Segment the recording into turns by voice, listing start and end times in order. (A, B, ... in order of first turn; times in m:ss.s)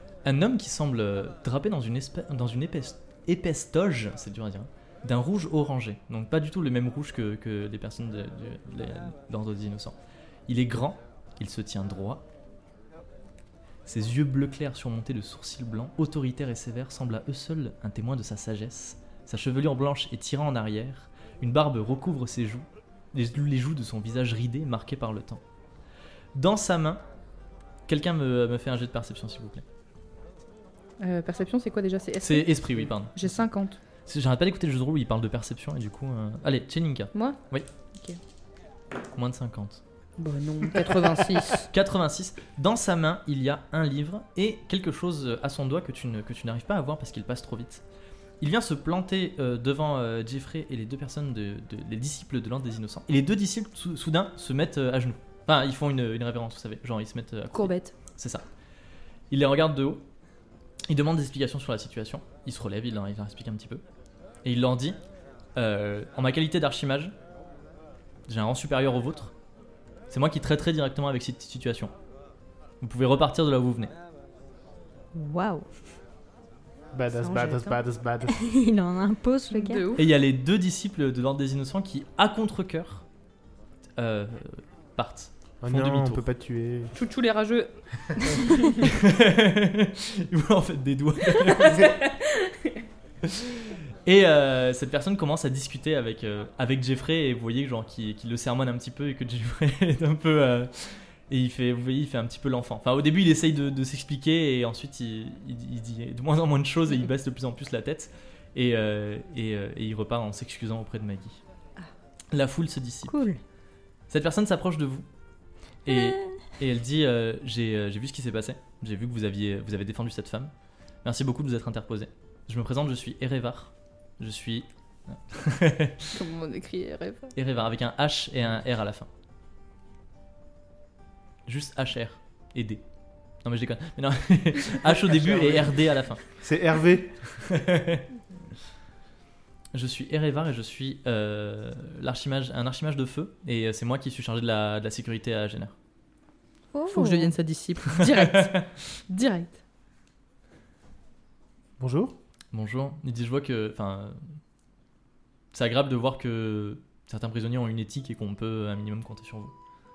0:00.2-0:12.2 A
0:13.8-0:25.4 A
0:26.3-0:27.0 A
0:27.9-0:29.6 A
0:31.0-0:33.8 B
0:32.2-0:33.4 A
0:34.0-0:37.7 A
0:39.1-0:39.8 A
0:40.2-0:41.7 B
0:41.6-0:47.8 A
0:48.4-0:58.4 A
0:57.5-0:57.9 B
0:59.3-1:00.0 A
1:00.9-1:03.8 A
1:04.4-1:05.0 A
1:05.6-1:07.1 A
1:08.3-1:09.3 A
1:10.1-1:11.9 A
1:12.8-1:13.9 A
1:15.1-1:15.7 C
1:16.9-1:18.4 D
1:17.2-1:17.8 B
1:18.3-1:19.8 C
1:19.5-1:20.0 B
1:20.0-1:23.1 A
1:24.0-1:26.2 A
1:25.6-1:26.9 D
1:26.9-1:27.7 B
1:28.2-1:28.7 B
1:28.8-1:32.0 A
1:31.4-1:32.7 B
1:33.2-1:51.4 A
1:52.3-1:53.1 A
1:53.1-1:53.4 C
1:54.1-1:55.0 A
1:55.8-2:00.5 A
1:55.9-1:56.3 C
2:01.0-2:06.2 A
2:06.1-2:07.3 B
2:07.3-2:09.1 A
2:11.4-2:12.8 A
2:13.4-2:16.2 A
2:15.0-2:15.7 D
2:16.3-2:17.2 D
2:17.4-2:18.0 A
2:19.7-2:25.7 A
2:26.7-2:27.3 C
2:26.9-2:29.6 B
2:28.0-2:28.6 A
2:31.8-2:32.2 D
2:32.5-2:34.2 A
2:35.5-2:39.5 A